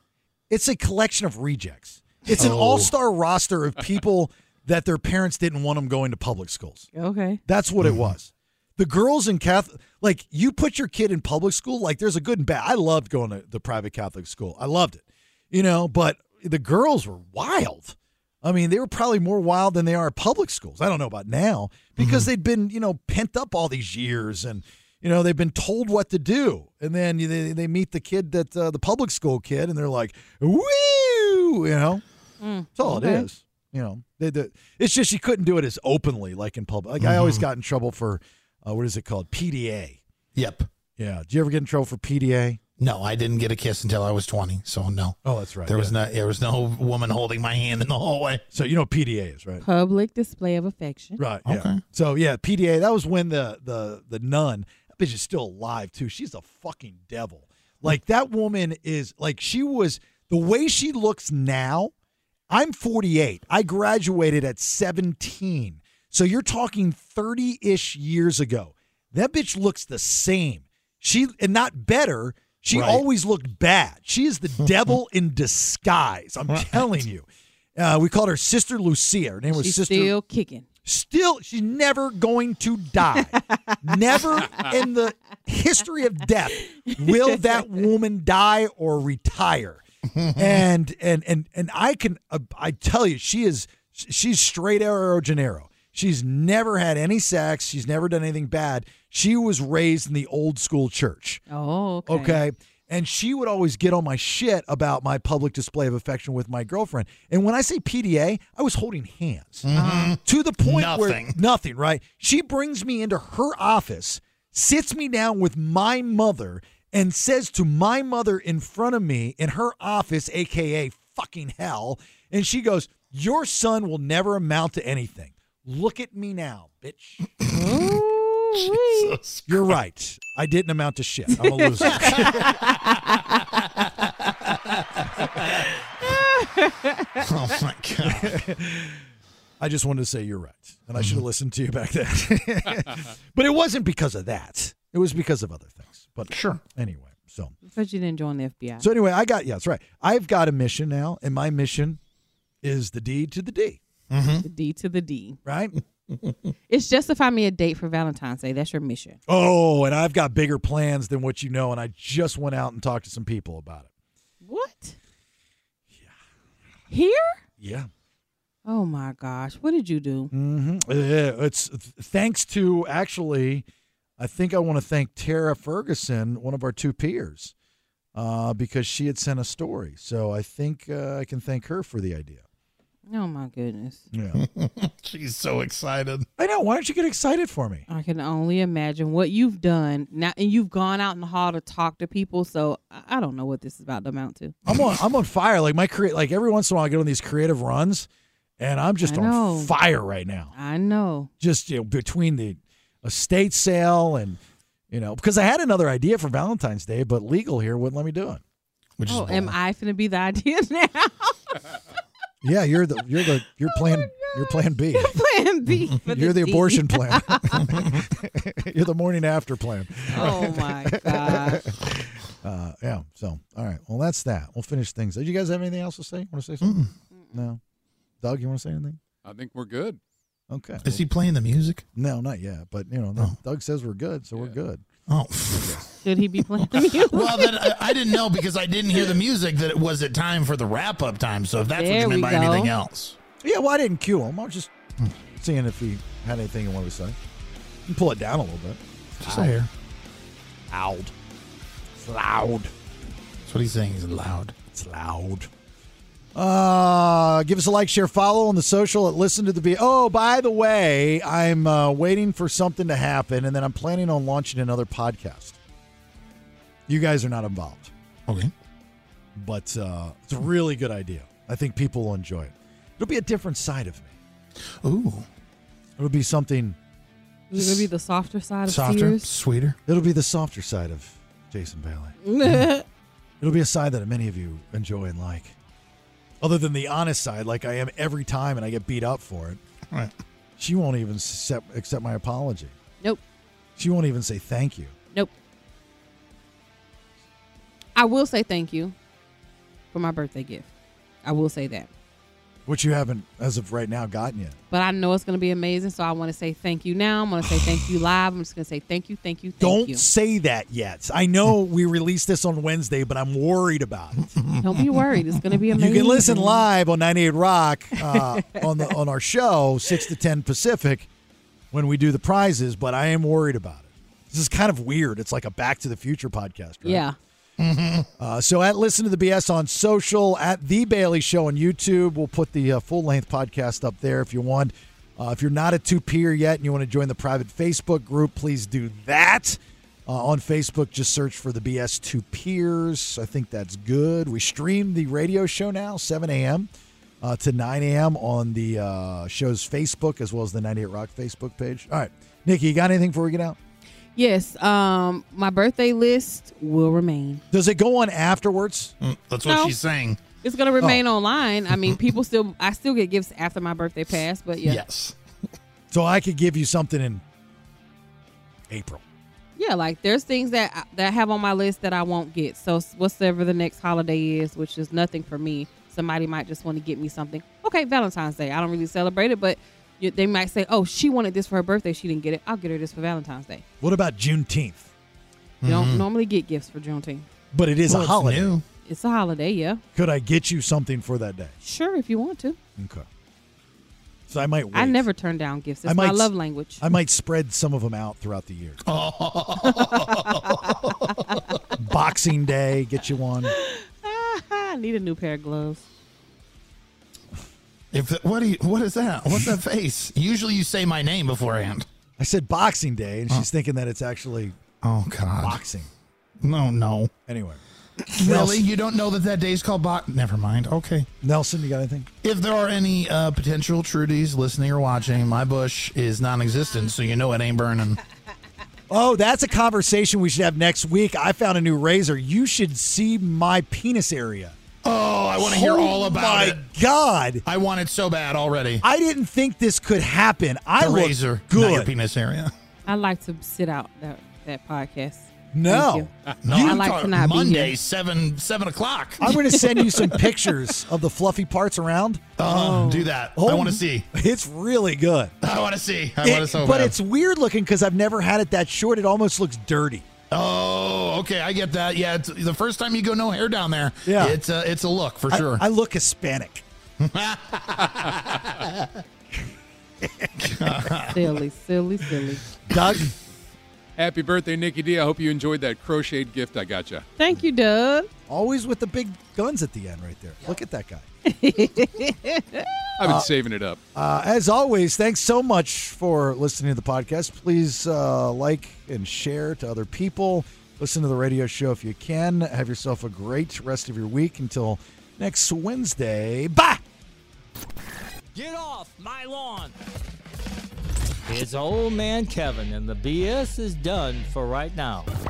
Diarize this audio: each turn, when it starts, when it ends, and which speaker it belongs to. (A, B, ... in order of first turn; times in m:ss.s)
0:00.5-0:06.9 A
0:02.4-0:02.9 B
0:06.9-0:07.4 C
0:07.4-0:32.0 A
0:22.0-0:22.3 B
0:32.4-0:33.2 C
0:32.8-0:40.0 A
0:37.0-0:37.4 B
0:40.4-0:40.7 B
0:41.0-0:42.6 A
0:42.8-0:48.4 B
0:45.2-0:46.0 A
0:48.5-0:49.6 A
0:49.6-0:51.2 C
0:51.2-1:01.9 A
0:51.5-0:51.8 B
1:02.5-1:20.1 A
1:12.7-1:13.0 B
1:16.5-1:16.9 B
1:19.5-1:20.6 C
1:20.8-1:41.4 A
1:23.0-1:24.6 C
1:26.5-1:27.4 C
1:30.2-1:30.5 B
1:41.5-1:42.4 C
1:42.0-2:07.2 A
1:49.6-1:51.4 B
1:49.7-1:50.2 C
2:07.5-2:09.1 C
2:08.6-2:09.7 B
2:09.5-2:12.6 A
2:11.3-2:13.4 C
2:11.8-2:15.6 B
2:15.4-2:17.3 C
2:17.2-2:18.4 B
2:18.0-2:19.0 A
2:19.6-2:27.5 A
2:26.3-2:26.6 B
2:27.6-2:28.9 C
2:28.8-2:32.0 A
2:32.6-2:33.8 A
2:34.1-2:34.5 B
2:34.4-2:35.4 C
2:35.4-2:35.7 A
2:36.7-2:39.2 C
2:39.3-2:43.9 A
2:44.4-2:45.0 C
2:46.9-2:47.4 C
2:47.6-2:47.9 A
2:48.6-2:50.3 C
2:50.3-2:53.6 A
2:54.2-2:57.5 A
2:58.1-3:02.4 A
3:03.1-3:04.0 C
3:04.1-3:04.4 A
3:04.3-3:06.2 B
3:06.4-3:07.8 A
3:07.9-3:14.5 C
3:14.7-3:18.1 A
3:18.6-3:20.5 A
3:19.0-3:19.7 C
3:20.5-3:21.3 C
3:21.4-3:28.4 A
3:29.0-3:29.5 B
3:29.1-3:31.6 C
3:32.4-3:35.2 A
3:33.7-3:37.7 C
3:36.0-3:46.8 A
3:37.7-3:38.0 B
3:40.1-3:41.7 C
3:46.6-3:46.9 B
3:47.3-3:47.6 A
3:48.2-3:49.0 A
3:49.2-3:50.0 D
3:50.5-3:51.0 A
3:50.8-3:51.8 B
3:52.0-3:54.8 A
3:55.1-3:55.9 B
3:56.0-3:58.1 C
3:56.7-4:03.2 B
4:01.7-4:02.7 C
4:03.4-4:04.7 A
4:05.4-4:07.2 A
4:07.9-4:09.5 A
4:09.2-4:09.7 B
4:10.7-4:11.1 A
4:12.0-4:12.7 A
4:13.4-4:14.6 B
4:14.7-4:15.5 A
4:16.3-4:25.6 A
4:26.9-4:27.9 A
4:29.4-4:34.1 A
4:34.8-4:35.3 B
4:36.0-4:36.8 A
4:37.5-4:39.3 C
4:37.5-4:37.8 B
4:38.7-4:39.8 B
4:39.9-4:42.2 A
4:42.2-4:42.8 C
4:43.4-4:45.5 A
4:46.4-4:49.6 A
4:50.6-4:52.7 A
4:53.8-4:54.9 A
4:58.0-4:59.0 C
4:59.9-5:00.7 C
5:01.2-5:01.9 C
5:02.6-5:04.6 A
5:04.7-5:10.0 C
5:09.6-5:14.4 A
5:14.4-5:15.6 B
5:14.6-5:16.7 C
5:15.8-5:21.1 A
5:18.0-5:18.9 C
5:21.7-5:27.0 A
5:26.8-5:27.2 C
5:27.6-5:28.1 B
5:28.2-5:46.7 A
5:47.2-5:53.6 A
5:54.2-5:57.4 C
5:57.5-5:58.9 A
5:59.0-6:00.2 B
5:59.4-5:59.7 C
6:00.4-6:04.8 C
6:04.6-6:05.1 B
6:05.9-6:07.2 A
6:08.7-6:09.0 A
6:09.6-6:23.6 C
6:23.8-6:24.9 A
6:25.6-6:26.0 B
6:25.6-6:27.3 C
6:27.5-6:28.5 A
6:27.9-6:28.6 B
6:28.8-6:29.8 C
6:29.9-6:31.5 A
6:31.6-6:32.6 C
6:32.8-6:33.1 A
6:34.3-6:35.0 A
6:34.7-6:36.8 C
6:35.8-6:38.8 A
6:38.8-6:41.7 B
6:39.6-6:41.4 C
6:41.8-6:43.5 A
6:43.4-6:45.8 C
6:47.9-6:51.9 B
6:52.2-6:54.6 A
6:54.8-6:55.6 B
6:55.4-6:55.9 A
6:56.4-6:57.1 B
6:57.3-6:57.6 A
6:58.0-7:01.1 B
6:58.2-6:58.7 A
7:01.2-7:02.1 A
7:02.2-7:08.0 B
7:08.9-7:14.6 A
7:14.8-7:16.6 B
7:15.4-7:17.4 A
7:17.4-7:18.8 B
7:18.8-7:21.9 A
7:20.8-7:22.5 B
7:22.8-7:27.7 C
7:25.5-7:26.8 A
7:26.4-7:29.8 B
7:29.2-7:32.5 A
7:29.2-7:29.9 C
7:32.4-7:34.1 B
7:32.4-7:33.1 C
7:33.4-7:35.3 A
7:35.4-7:36.9 B
7:36.2-7:40.1 A
7:40.3-7:45.6 B
7:44.0-7:44.4 A
7:45.3-7:46.6 A
7:47.0-7:49.0 B
7:48.0-7:48.4 D
7:50.0-7:51.0 A
7:50.4-7:51.3 B
7:51.1-7:52.4 C
7:52.6-7:53.1 A
7:54.0-7:57.1 D
7:57.2-7:58.1 C
7:58.3-8:01.0 A
8:01.2-8:02.7 C
8:03.0-8:03.8 D
8:03.0-8:03.3 A
8:03.9-8:16.8 A
8:18.3-8:19.7 E
8:21.3-8:25.1 E